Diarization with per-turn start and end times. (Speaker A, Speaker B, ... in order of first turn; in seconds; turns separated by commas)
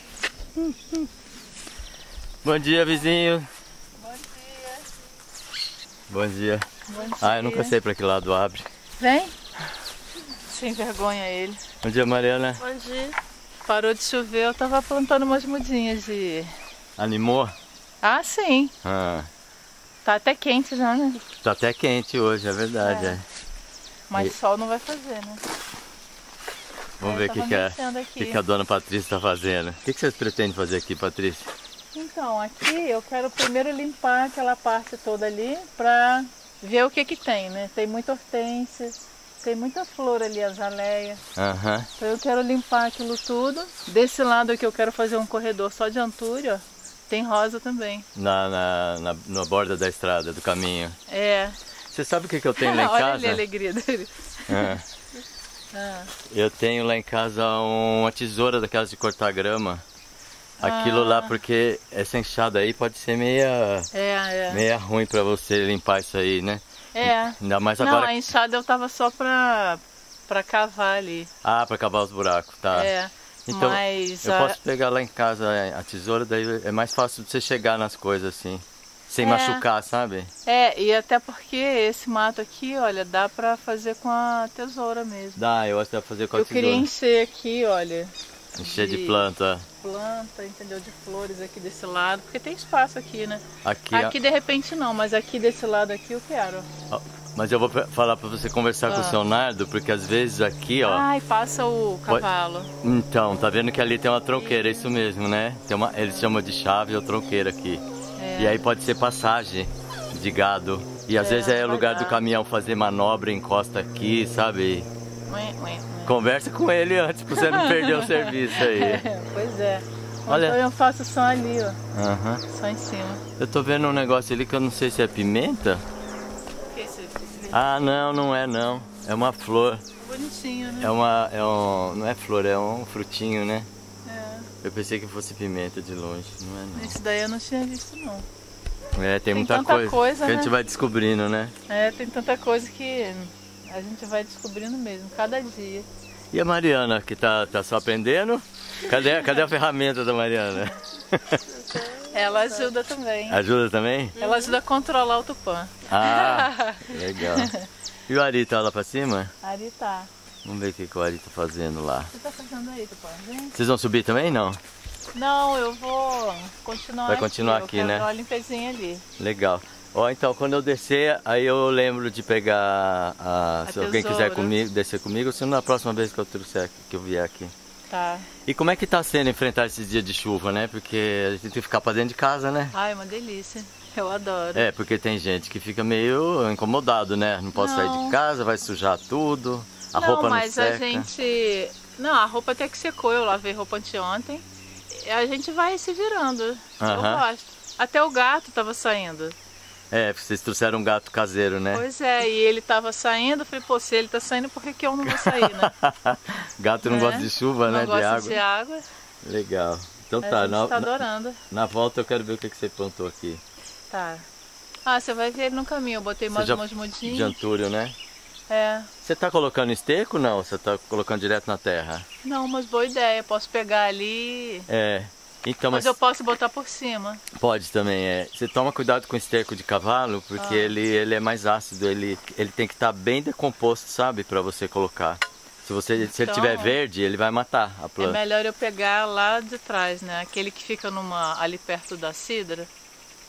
Speaker A: 0.6-1.0, Speaker A: 2.4-3.5, Speaker B: 4.0-4.8, Speaker A: 6.1-6.7, Speaker B: 6.9-7.8, Speaker A: 7.2-8.7, Speaker B: 9.0-9.3, Speaker B: 10.5-11.6, Speaker A: 11.8-12.7, Speaker B: 12.7-16.5, Speaker A: 17.0-17.5, Speaker B: 18.0-18.7, Speaker A: 18.8-19.3, Speaker B: 20.0-21.2, Speaker A: 21.4-23.2, Speaker B: 22.8-23.2, Speaker B: 24.1-25.4, Speaker A: 27.0-31.5, Speaker B: 27.0-28.4, Speaker B: 31.9-41.2, Speaker A: 41.4-41.9, Speaker B: 42.0-48.0, Speaker A: 48.1-51.0, Speaker B: 51.1-51.5, Speaker A: 51.9-53.4, Speaker B: 52.6-54.7, Speaker A: 54.5-54.8, Speaker B: 55.7-56.1, Speaker A: 56.3-59.8, Speaker B: 60.6-61.3, Speaker A: 60.6-63.9, Speaker B: 63.9-64.6, Speaker A: 64.5-68.1, Speaker B: 66.9-71.3, Speaker A: 71.4-72.9, Speaker B: 72.7-74.6, Speaker A: 73.5-80.3, Speaker B: 79.2-79.6, Speaker B: 80.5-85.4, Speaker A: 85.3-86.9, Speaker B: 86.3-89.2, Speaker A: 88.6-89.7, Speaker B: 89.8-96.7, Speaker A: 93.6-94.2, Speaker A: 96.9-101.0, Speaker B: 98.9-99.2, Speaker B: 100.8-102.7, Speaker A: 102.8-107.8, Speaker B: 104.4-104.9, Speaker B: 108.2-108.6, Speaker A: 108.4-114.9, Speaker B: 111.2-112.2, Speaker B: 115.3-116.1, Speaker A: 116.0-119.0, Speaker B: 117.3-121.8, Speaker A: 120.3-120.6, Speaker A: 121.9-122.4, Speaker B: 122.5-123.2, Speaker A: 123.4-125.8, Speaker B: 126.7-127.8, Speaker A: 127.5-129.8, Speaker B: 130.0-130.9, Speaker A: 130.8-133.7, Speaker B: 134.1-134.5, Speaker A: 134.6-137.0, Speaker B: 136.7-138.2, Speaker A: 138.9-141.5, Speaker B: 139.3-140.5, Speaker B: 141.7-145.8, Speaker A: 146.3-151.4, Speaker B: 151.8-153.4, Speaker A: 153.3-154.2, Speaker B: 154.2-157.7, Speaker A: 155.9-157.5, Speaker A: 158.1-159.3, Speaker B: 159.4-160.1, Speaker A: 160.4-162.1, Speaker B: 162.1-163.5, Speaker A: 163.5-164.6, Speaker B: 165.1-169.0, Speaker A: 167.1-168.1, Speaker A: 169.2-177.5, Speaker B: 173.7-174.5, Speaker B: 177.9-178.3, Speaker A: 178.4-182.7, Speaker B: 182.7-184.6, Speaker A: 184.5-191.1, Speaker B: 187.5-188.2, Speaker B: 189.9-199.3, Speaker A: 196.8-197.2, Speaker A: 199.9-201.8, Speaker B: 201.7-205.7, Speaker A: 205.1-208.4, Speaker B: 206.8-208.8, Speaker A: 209.2-213.4, Speaker B: 210.2-211.4, Speaker B: 213.9-214.2, Speaker B: 214.8-217.3, Speaker A: 216.3-217.9, Speaker B: 218.5-218.9, Speaker A: 219.0-222.1, Speaker B: 222.2-224.7, Speaker A: 224.7-225.9, Speaker B: 225.7-227.2, Speaker A: 227.3-238.2, Speaker B: 230.4-230.7, Speaker B: 236.1-236.8, Speaker B: 238.0-242.7